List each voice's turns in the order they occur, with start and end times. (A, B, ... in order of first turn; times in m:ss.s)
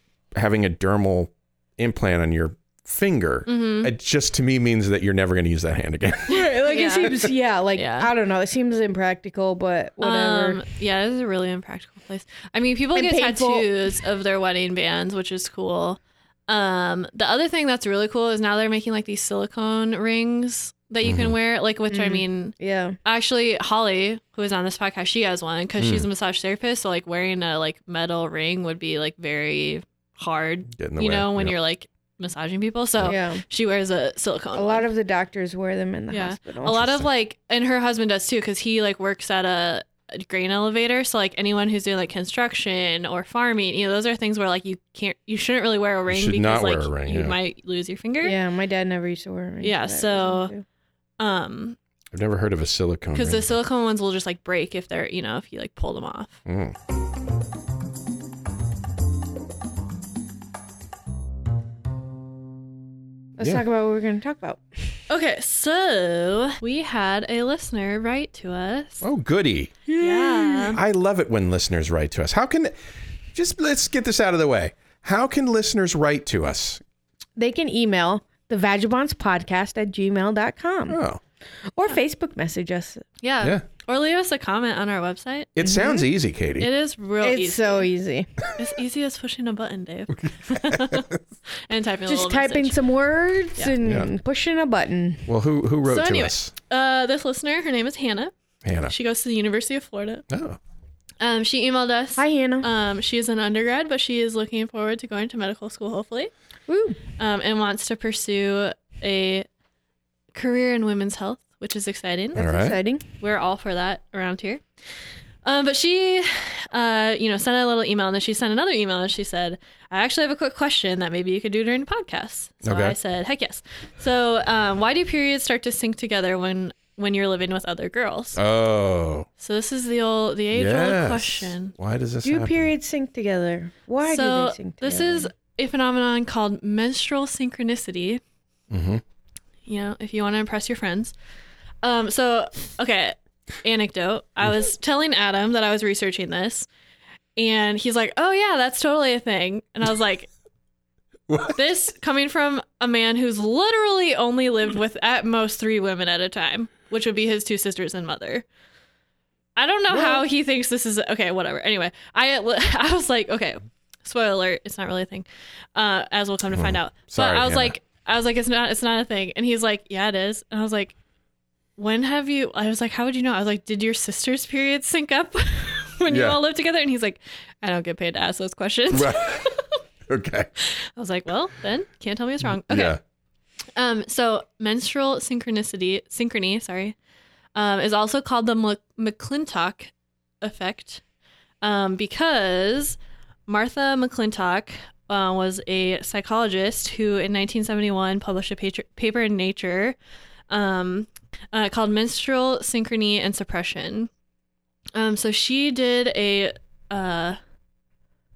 0:00.3-0:06.6 A
0:03.5-0:03.9 B
0:06.3-0:10.6 C
0:06.3-0:07.2 B
0:07.7-0:08.1 B
0:10.0-0:34.9 B
0:12.9-0:13.7 C
0:21.0-0:21.3 A
0:21.9-0:23.0 C
0:25.8-0:26.0 A
0:30.7-0:31.6 A
0:33.0-0:33.4 C
0:34.5-0:36.9 C
0:36.1-0:48.4 B
0:46.1-0:47.4 A
0:48.2-0:50.6 C
0:49.6-0:50.5 B
0:51.2-0:51.8 B
0:52.1-0:53.5 A
0:53.1-0:56.4 B
0:56.4-0:56.7 A
1:03.4-1:04.6 C
1:05.1-1:09.0 B
1:09.0-1:09.8 A
1:09.9-1:10.7 C
1:10.0-1:10.8 B
1:10.7-1:12.7 A
1:13.3-1:16.8 A
1:17.4-1:21.0 C
1:20.9-1:21.2 A
1:21.7-1:23.0 C
1:23.2-1:25.5 B
1:25.6-1:26.7 A
1:25.6-1:26.0 C
1:26.6-1:27.9 B
1:27.2-1:28.3 C
1:28.5-1:32.8 B
1:30.2-1:31.2 A
1:32.1-1:35.3 C
1:33.8-1:34.1 A
1:35.3-1:36.5 A
1:35.8-1:38.3 B
1:38.6-1:38.9 A
1:38.8-1:40.2 B
1:40.3-1:40.6 A
1:41.2-1:46.3 B
1:42.2-1:42.7 C
1:46.7-1:47.0 C
1:47.2-1:49.5 B
1:50.3-1:52.4 B
1:52.4-1:53.0 C
1:52.4-1:52.8 A
1:53.2-1:54.6 B
1:55.4-2:08.4 B
2:02.6-2:02.9 A
2:08.4-2:09.3 A
2:09.4-2:11.7 B
2:10.5-2:12.7 A
2:12.2-2:15.3 C
2:14.0-2:18.2 B
2:18.7-2:19.0 A
2:19.6-2:21.1 B
2:21.8-2:26.7 B
2:27.4-2:30.3 B
2:31.3-2:31.6 A
2:31.5-2:38.4 B
2:39.6-2:51.0 B
2:39.9-2:40.2 C
2:46.5-2:47.7 A
2:51.8-2:59.8 B
2:56.1-2:56.4 A
2:58.9-2:59.5 A
3:00.1-3:00.5 A
3:00.7-3:03.0 B
3:02.6-3:03.0 A
3:03.8-3:06.9 B
3:07.5-3:09.9 B
3:10.4-3:11.0 B
3:11.6-3:20.0 B
3:20.5-3:24.1 B
3:24.9-3:27.4 B